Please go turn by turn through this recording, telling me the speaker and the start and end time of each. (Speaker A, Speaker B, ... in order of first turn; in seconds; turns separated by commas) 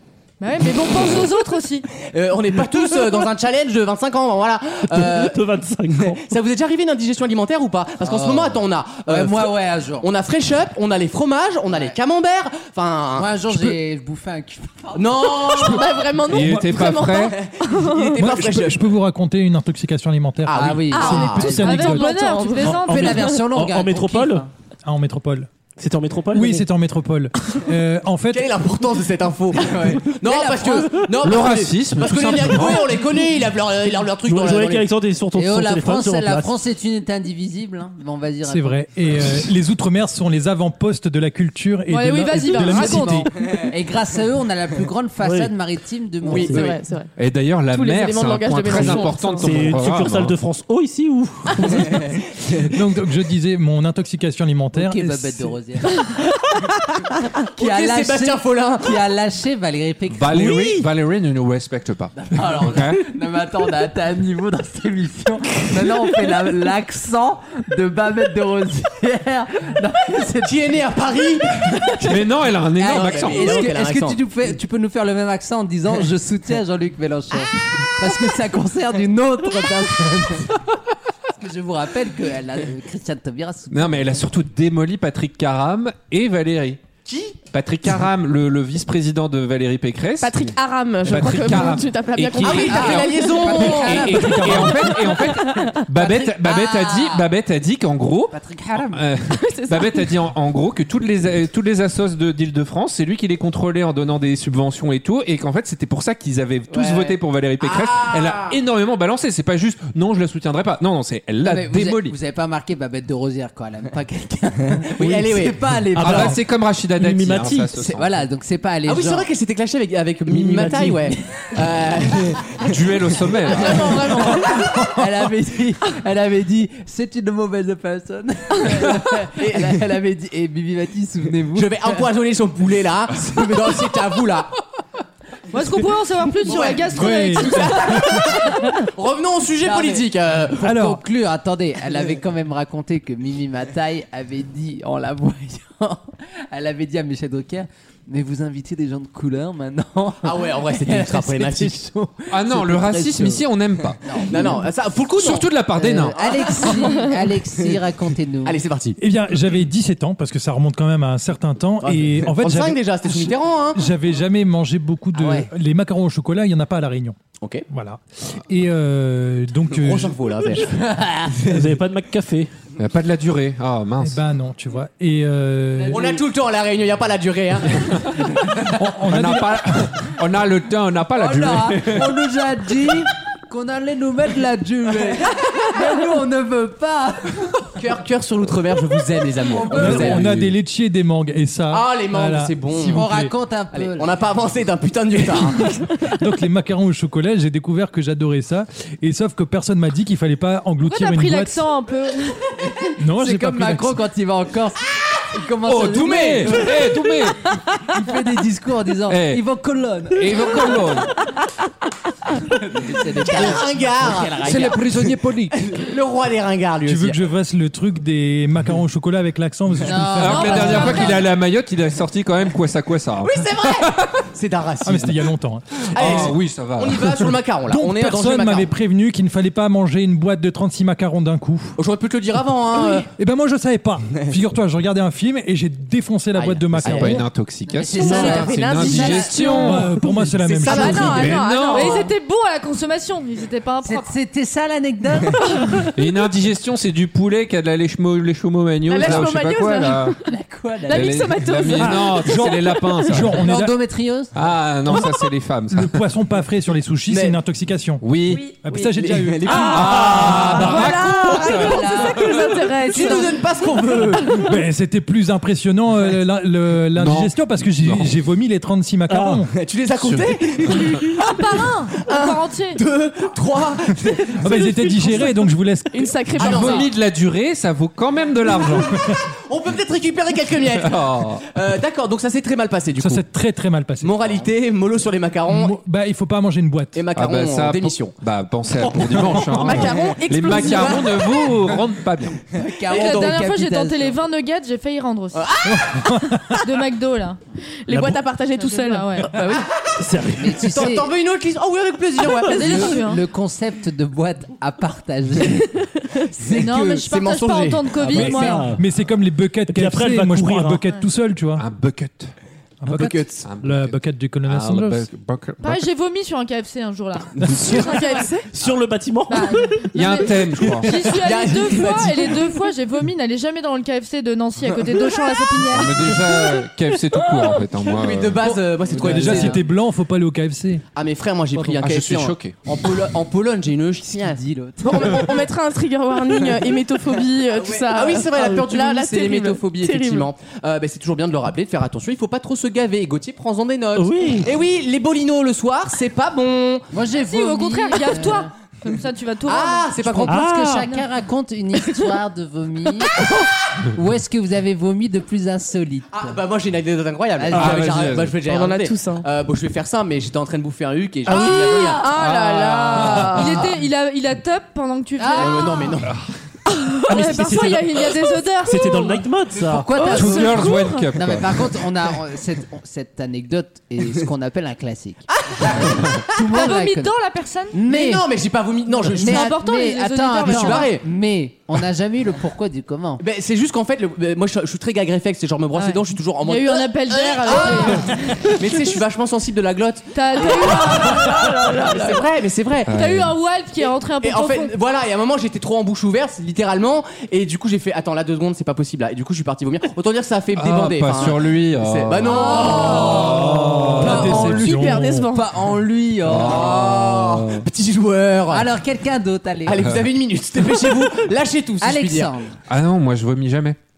Speaker A: 0.4-1.9, Speaker B: 2.1-5.4, Speaker C: 4.9-6.3, Speaker B: 5.9-13.8, Speaker D: 8.0-10.1, Speaker D: 11.7-12.0, Speaker D: 13.2-15.8, Speaker B: 14.9-16.0, Speaker E: 15.4-18.2, Speaker F: 16.3-17.4, Speaker B: 17.3-18.9, Speaker G: 18.2-22.1, Speaker B: 20.5-21.4, Speaker D: 20.5-21.8, Speaker E: 20.9-23.4, Speaker A: 21.6-23.3, Speaker D: 22.6-24.5, Speaker C: 22.7-24.5, Speaker G: 24.9-25.5, Speaker C: 25.8-26.7, Speaker G: 26.3-28.5, Speaker B: 28.3-34.9, Speaker D: 30.2-31.1, Speaker F: 31.2-32.9, Speaker C: 34.2-36.5, Speaker D: 35.4-38.8, Speaker G: 38.5-43.3, Speaker A: 41.9-43.3, Speaker D: 42.7-46.7, Speaker C: 45.2-45.5, Speaker B: 46.3-46.7, Speaker C: 46.3-46.6, Speaker E: 46.5-47.1, Speaker F: 47.2-50.4, Speaker E: 47.7-49.6, Speaker C: 48.9-52.2, Speaker G: 52.6-55.5, Speaker D: 54.7-56.1, Speaker B: 57.6-59.0, Speaker D: 57.6-60.9, Speaker F: 60.1-63.0, Speaker D: 62.2-70.7, Speaker B: 70.4-72.2, Speaker D: 71.5-72.2, Speaker F: 72.0-73.7, Speaker D: 72.8-80.6, Speaker B: 72.8-74.2, Speaker D: 81.3-84.3, Speaker F: 83.7-86.8, Speaker B: 87.1-87.4, Speaker F: 87.5-112.2, Speaker E: 90.2-95.8, Speaker B: 92.4-94.2, Speaker D: 92.7-95.1, Speaker D: 96.0-97.3, Speaker D: 98.3-99.0, Speaker E: 99.3-100.1, Speaker B: 106.8-107.0, Speaker B: 107.6-108.6, Speaker D: 111.4-116.4, Speaker B: 115.0-115.6, Speaker C: 115.9-116.4, Speaker F: 116.0-118.2, Speaker C: 117.0-117.7, Speaker D: 117.7-119.3, Speaker B: 118.9-122.8, Speaker C: 120.3-121.0, Speaker F: 122.6-124.2, Speaker B: 123.5-125.0, Speaker D: 123.5-132.0, Speaker B: 128.6-129.8, Speaker B: 131.5-134.5, Speaker A: 135.5-138.0, Speaker B: 136.4-140.7, Speaker G: 136.9-138.2, Speaker D: 139.6-153.4, Speaker G: 140.6-141.0, Speaker B: 150.2-151.8, Speaker F: 152.3-154.0, Speaker D: 154.0-154.7, Speaker B: 154.3-155.5, Speaker F: 155.2-156.2, Speaker D: 155.8-158.6, Speaker B: 156.2-157.1, Speaker B: 158.4-159.0, Speaker G: 159.0-167.2, Speaker B: 161.8-163.8, Speaker D: 165.2-165.5, Speaker B: 167.4-167.7, Speaker G: 167.7-170.2, Speaker B: 169.7-170.8, Speaker D: 170.6-171.4, Speaker C: 171.4-172.5, Speaker F: 172.8-174.2, Speaker G: 174.0-176.1, Speaker D: 175.8-176.2, Speaker B: 175.9-177.9, Speaker G: 178.6-179.9, Speaker F: 179.1-182.2, Speaker D: 181.2-187.8, Speaker B: 187.8-190.4, Speaker D: 189.5-190.3, Speaker G: 189.7-193.3, Speaker B: 191.7-193.1, Speaker D: 192.9-194.1, Speaker B: 193.7-195.8, Speaker G: 196.0-201.7, Speaker A: 200.9-202.4, Speaker D: 202.6-207.0, Speaker G: 203.0-204.0, Speaker F: 205.7-207.4, Speaker B: 205.9-206.7, Speaker D: 207.8-210.9, Speaker F: 209.1-209.4, Speaker F: 210.1-211.1, Speaker D: 212.6-215.1, Speaker B: 213.2-217.2, Speaker G: 214.7-215.3, Speaker G: 216.8-221.0, Speaker D: 219.8-221.2, Speaker F: 220.2-224.1, Speaker A: 220.3-221.2, Speaker B: 223.2-225.3, Speaker G: 224.8-226.3, Speaker F: 225.9-227.3, Speaker B: 225.9-228.7, Speaker G: 227.7-231.8, Speaker B: 231.8-233.1, Speaker G: 233.2-237.2, Speaker B: 236.4-237.2, Speaker D: 236.8-239.7, Speaker F: 236.8-239.9, Speaker E: 238.0-239.9, Speaker G: 239.6-241.4, Speaker B: 240.4-241.5, Speaker E: 240.6-242.1, Speaker F: 241.0-242.0, Speaker A: 241.7-244.1, Speaker D: 243.8-245.5, Speaker F: 245.9-250.2, Speaker E: 248.9-250.2, Speaker D: 250.3-251.2, Speaker E: 250.9-252.4, Speaker F: 250.9-253.6, Speaker G: 251.8-253.7, Speaker D: 253.4-254.3, Speaker F: 254.3-256.0, Speaker G: 254.9-258.0, Speaker B: 257.1-257.4, Speaker F: 258.0-258.4, Speaker G: 258.6-260.1, Speaker B: 258.7-260.9, Speaker F: 259.6-262.1, Speaker D: 259.9-263.4, Speaker E: 260.6-263.4, Speaker B: 262.9-264.4, Speaker G: 264.4-269.5, Speaker F: 267.0-268.1, Speaker C: 269.1-269.4, Speaker B: 269.5-275.1, Speaker A: 271.2-272.8, Speaker G: 274.4-276.8, Speaker E: 274.9-275.3, Speaker E: 275.9-276.9, Speaker F: 276.4-279.0, Speaker B: 276.4-276.9, Speaker G: 278.9-279.2, Speaker B: 279.3-283.2, Speaker F: 280.8-281.5, Speaker G: 283.0-284.2, Speaker B: 284.0-285.8, Speaker G: 285.5-287.0, Speaker B: 286.9-288.1, Speaker F: 287.1-292.4, Speaker B: 289.1-291.0, Speaker E: 289.4-291.3, Speaker D: 292.5-294.2, Speaker B: 292.9-293.4, Speaker A: 292.9-295.5, Speaker B: 295.4-296.2, Speaker G: 295.7-296.6, Speaker A: 296.6-297.4, Speaker E: 297.9-299.7, Speaker C: 297.9-298.2, Speaker A: 298.5-299.3, Speaker B: 299.5-300.0, Speaker C: 300.0-300.6, Speaker D: 300.4-301.1, Speaker B: 300.6-303.0, Speaker A: 302.5-303.2, Speaker D: 302.5-305.7, Speaker D: 306.4-307.0, Speaker A: 306.5-308.6, Speaker B: 306.6-308.4, Speaker C: 308.1-308.9, Speaker G: 308.2-311.7, Speaker C: 309.7-310.9, Speaker F: 311.6-312.3, Speaker G: 312.8-315.1, Speaker B: 312.9-313.5, Speaker F: 313.4-315.8, Speaker A: 315.6-318.2, Speaker E: 317.6-318.5, Speaker C: 318.5-320.0, Speaker A: 319.3-326.1, Speaker F: 319.9-320.9, Speaker C: 320.6-320.9, Speaker B: 320.9-322.5, Speaker F: 325.7-328.4, Speaker B: 327.9-329.6, Speaker G: 328.4-330.9, Speaker D: 328.9-329.5, Speaker B: 330.9-334.4, Speaker F: 331.8-332.6, Speaker D: 334.2-335.2, Speaker E: 334.8-340.3, Speaker B: 337.6-346.9, Speaker C: 344.0-344.5, Speaker D: 346.9-348.5, Speaker A: 347.1-350.2, Speaker B: 349.5-350.4, Speaker D: 350.0-353.3, Speaker C: 350.3-350.9, Speaker D: 353.9-356.4, Speaker B: 356.1-362.1, Speaker D: 357.4-357.9, Speaker F: 357.5-358.4, Speaker E: 358.4-359.2, Speaker C: 361.3-361.9, Speaker E: 361.3-363.6, Speaker F: 362.1-363.4, Speaker D: 362.9-363.5, Speaker A: 363.4-365.9, Speaker D: 365.2-365.9, Speaker B: 365.4-366.1, Speaker A: 366.9-369.2, Speaker C: 367.1-368.1, Speaker C: 368.6-369.9, Speaker D: 369.6-377.1, Speaker E: 369.9-371.1, Speaker F: 370.1-371.5, Speaker B: 375.4-376.2, Speaker A: 376.5-377.8, Speaker D: 377.7-378.3, Speaker B: 377.9-379.5, Speaker D: 378.9-383.2, Speaker A: 379.1-380.9, Speaker B: 380.4-381.1, Speaker B: 383.2-392.9, Speaker A: 385.8-388.4, Speaker A: 390.1-392.0, Speaker E: 391.4-392.2, Speaker F: 392.9-393.3, Speaker A: 392.9-394.7, Speaker B: 394.2-404.6, Speaker F: 400.6-404.4, Speaker D: 402.2-403.7, Speaker G: 403.8-405.3, Speaker E: 404.0-405.4, Speaker D: 405.2-407.4, Speaker F: 406.3-407.4, Speaker B: 406.3-408.7, Speaker D: 408.5-409.9, Speaker B: 409.6-412.4, Speaker D: 411.8-412.5, Speaker F: 412.7-413.8